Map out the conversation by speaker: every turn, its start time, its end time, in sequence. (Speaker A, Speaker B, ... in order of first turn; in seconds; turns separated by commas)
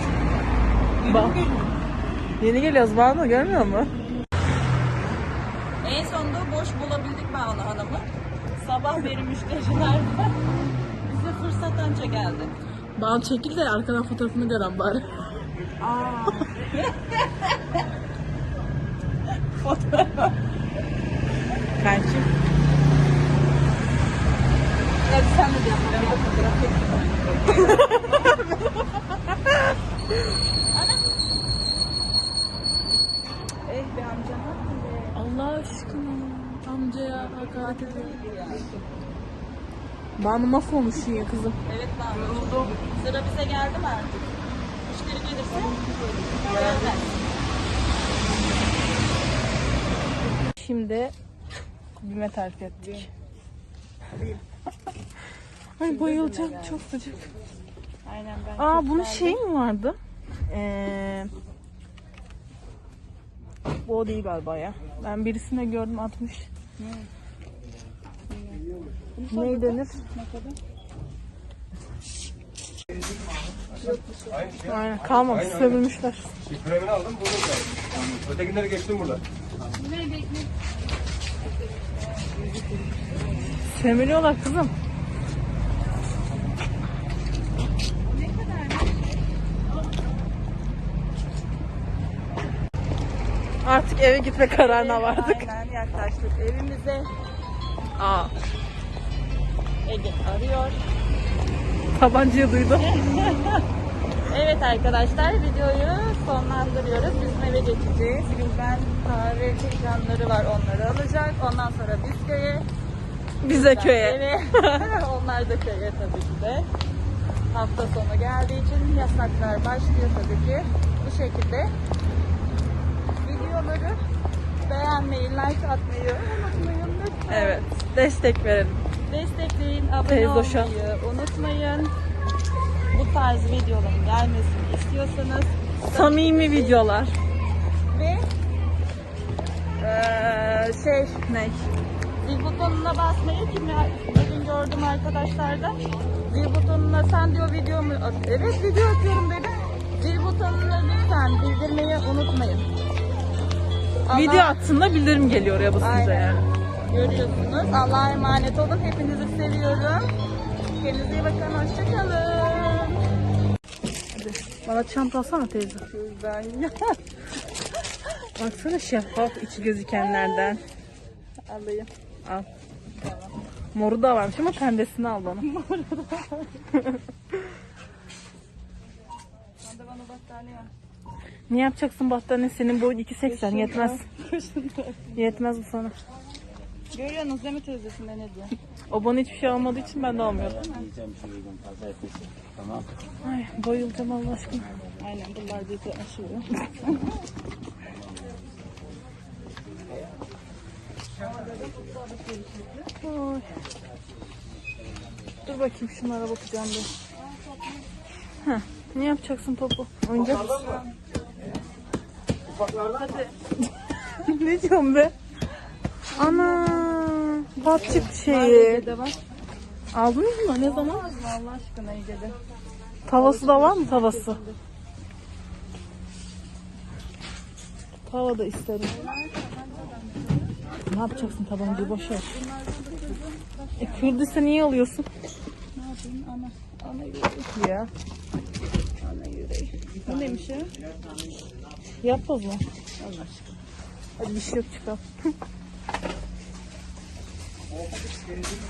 Speaker A: 1.0-1.8, Speaker B: 1.0-1.4, Speaker B: 2.4-3.9, Speaker A: 5.8-10.4, Speaker A: 11.1-12.5, Speaker B: 13.0-15.4, Speaker A: 15.8-17.8, Speaker A: 19.6-20.4, Speaker B: 21.8-22.3, Speaker A: 25.1-28.4, Speaker B: 27.7-28.5, Speaker A: 30.7-31.1, Speaker A: 33.6-35.2, Speaker B: 35.1-38.2, Speaker A: 37.5-38.8, Speaker B: 40.2-41.6, Speaker A: 41.6-44.3, Speaker A: 44.9-47.1, Speaker B: 50.6-51.1, Speaker B: 52.0-53.1, Speaker B: 55.8-57.3, Speaker A: 55.8-56.8, Speaker A: 58.0-59.4, Speaker B: 58.6-60.0, Speaker B: 60.5-61.3, Speaker B: 63.9-66.5, Speaker A: 66.8-67.1, Speaker A: 68.3-68.6, Speaker A: 69.2-70.6, Speaker B: 69.3-70.0, Speaker A: 73.8-74.6, Speaker B: 74.6-76.3, Speaker C: 78.2-79.2, Speaker A: 79.8-80.6, Speaker A: 81.6-83.5, Speaker B: 83.6-84.7, Speaker A: 88.0-89.2, Speaker B: 93.6-95.5, Speaker A: 94.5-97.1, Speaker B: 98.0-98.3, Speaker A: 99.8-100.8, Speaker B: 102.0-102.9, Speaker A: 102.8-103.6, Speaker A: 104.3-112.7, Speaker B: 113.4-114.9, Speaker A: 113.5-116.7, Speaker A: 117.5-121.7, Speaker A: 123.2-124.0, Speaker A: 124.6-127.6, Speaker B: 127.3-128.8, Speaker A: 129.1-131.9, Speaker B: 130.1-130.7, Speaker A: 132.9-136.8, Speaker B: 135.9-137.2, Speaker A: 137.9-138.2, Speaker A: 139.8-141.2, Speaker B: 141.3-141.7, Speaker A: 142.2-152.7, Speaker A: 154.1-154.6, Speaker B: 154.1-156.5, Speaker A: 155.8-160.1, Speaker A: 160.8-163.0, Speaker B: 164.2-165.8, Speaker A: 165.9-167.0, Speaker B: 168.4-170.6, Speaker A: 169.9-170.5, Speaker A: 171.5-171.9, Speaker A: 172.9-173.4, Speaker B: 173.8-175.5, Speaker A: 175.4-176.6, Speaker B: 176.7-177.0, Speaker A: 179.6-180.7, Speaker B: 181.5-184.1, Speaker A: 183.2-185.2, Speaker B: 185.2-186.0, Speaker A: 186.9-188.5, Speaker B: 188.9-190.7, Speaker A: 190.4-190.9, Speaker C: 191.1-192.8, Speaker B: 193.2-194.7, Speaker A: 195.0-197.1, Speaker A: 201.2-202.9, Speaker B: 203.0-203.5, Speaker B: 205.4-206.9, Speaker A: 207.2-207.9, Speaker B: 208.4-210.7, Speaker A: 210.4-211.0, Speaker A: 212.7-213.3, Speaker B: 214.1-215.1, Speaker A: 216.1-219.2, Speaker B: 216.1-218.8, Speaker B: 219.9-221.1, Speaker A: 220.6-222.4, Speaker B: 223.1-224.4, Speaker A: 223.1-224.6, Speaker B: 228.1-229.0, Speaker A: 228.8-230.6, Speaker B: 230.9-232.4, Speaker A: 231.1-234.2, Speaker B: 233.8-235.1, Speaker A: 235.8-237.5, Speaker B: 237.6-237.9, Speaker A: 239.0-240.7, Speaker B: 242.0-242.7, Speaker A: 243.0-243.5, Speaker B: 244.2-245.1, Speaker A: 247.9-248.4